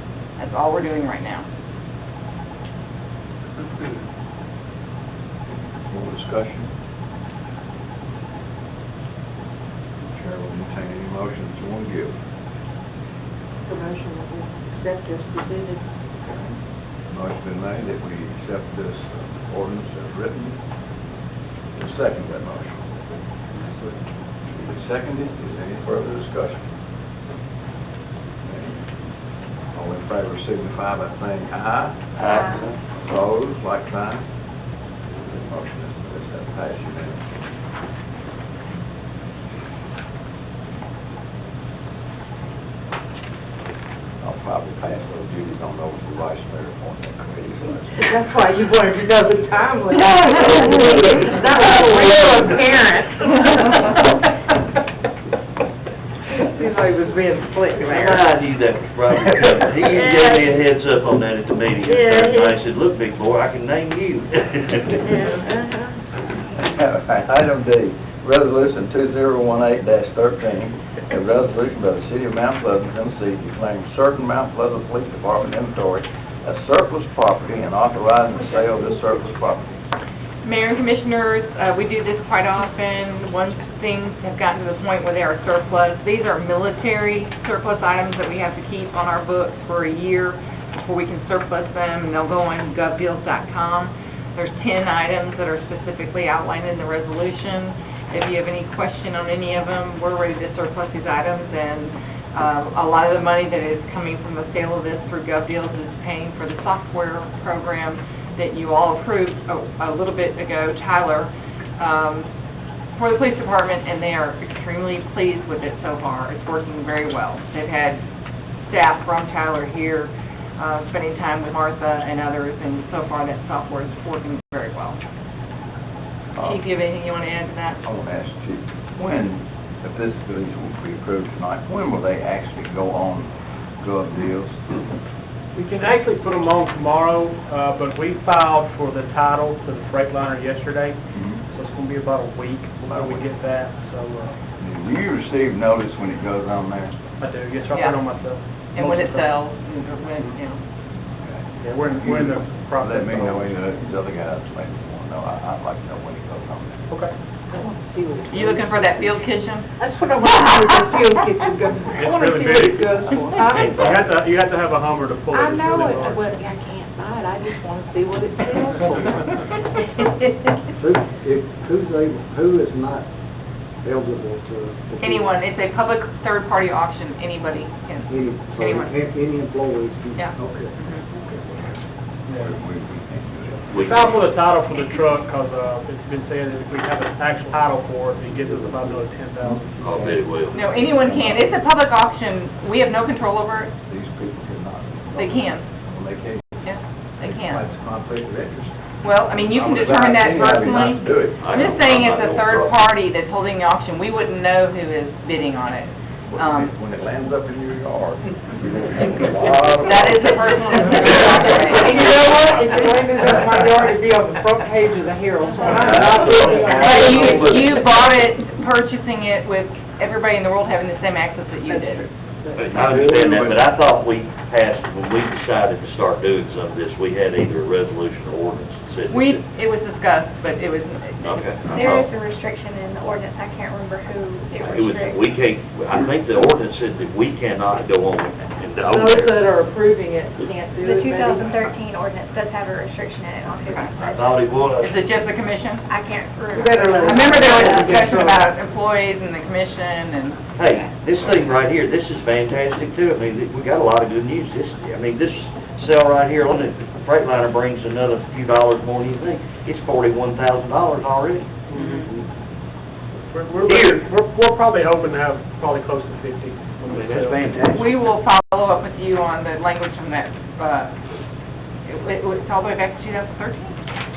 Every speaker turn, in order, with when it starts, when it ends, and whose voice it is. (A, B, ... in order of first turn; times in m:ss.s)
0:00.4-0:01.5 A
0:05.5-0:06.7 B
0:10.1-0:12.2 B
0:13.7-0:15.8 C
0:16.2-0:16.6 B
0:17.1-0:20.6 B
0:21.7-0:22.9 B
0:23.6-0:26.6 B
0:28.4-0:28.8 B
0:29.7-0:34.3 B
0:32.2-0:32.6 D
0:35.1-0:37.4 B
0:44.2-0:48.0 B
0:48.0-0:53.8 C
0:50.3-0:51.3 D
0:56.5-0:58.3 C
0:57.8-1:05.3 D
1:00.0-1:00.3 C
1:06.6-1:19.7 B
1:20.4-1:52.3 A
1:53.0-1:58.0 A
1:58.7-2:05.0 A
2:06.4-2:06.6 B
2:06.4-2:07.8 A
2:07.8-2:14.8 B
2:15.6-2:21.0 E
2:21.5-2:24.4 E
2:22.9-2:23.3 B
2:24.6-2:26.9 B
2:27.2-2:29.3 E
2:27.7-2:28.0 A
2:28.8-2:30.6 A
2:31.2-2:36.9 B
2:31.6-2:33.6 E
2:37.5-2:38.7 C
2:38.3-2:39.7 A
2:39.8-2:43.8 C
2:41.9-2:46.2 E
2:43.4-2:44.1 D
2:45.3-2:49.2 C
2:50.8-2:53.0 F
2:53.8-2:55.3 F
2:55.0-2:58.9 A
2:58.1-3:00.7 F
3:00.2-3:01.0 A
3:02.3-3:03.7 B
3:03.7-3:04.1 D
3:03.8-3:09.7 E
3:08.5-3:09.0 F
3:09.8-3:10.1 F
3:09.8-3:10.7 D
3:10.5-3:13.7 A
3:11.1-3:11.4 B
3:13.9-3:16.5 B
3:15.2-3:15.7 A
3:16.6-3:17.6 A
3:17.2-3:18.7 B
3:19.0-3:26.7 A
3:19.5-3:21.4 B
3:21.4-3:22.8 D
3:26.3-3:30.2 B
3:29.8-3:32.1 A
3:31.7-3:37.7 C
3:35.6-3:37.8 D
3:36.7-3:42.1 A
3:42.6-3:49.4 D
3:42.7-3:43.6 B
3:49.1-3:51.5 A
3:51.2-3:52.1 D
3:51.7-3:55.3 G
3:54.6-3:59.4 D
3:58.9-4:01.6 C
4:00.8-4:04.4 G
4:04.0-4:05.0 D
4:04.8-4:05.8 A
4:05.9-4:08.0 G
4:06.6-4:08.5 C
4:07.0-4:10.4 A
4:10.6-4:21.5 D
4:21.7-4:22.1 A
4:23.3-4:27.5 E
4:23.6-4:24.0 D
4:27.2-4:27.6 D
4:27.7-4:30.9 A
4:31.9-4:33.8 A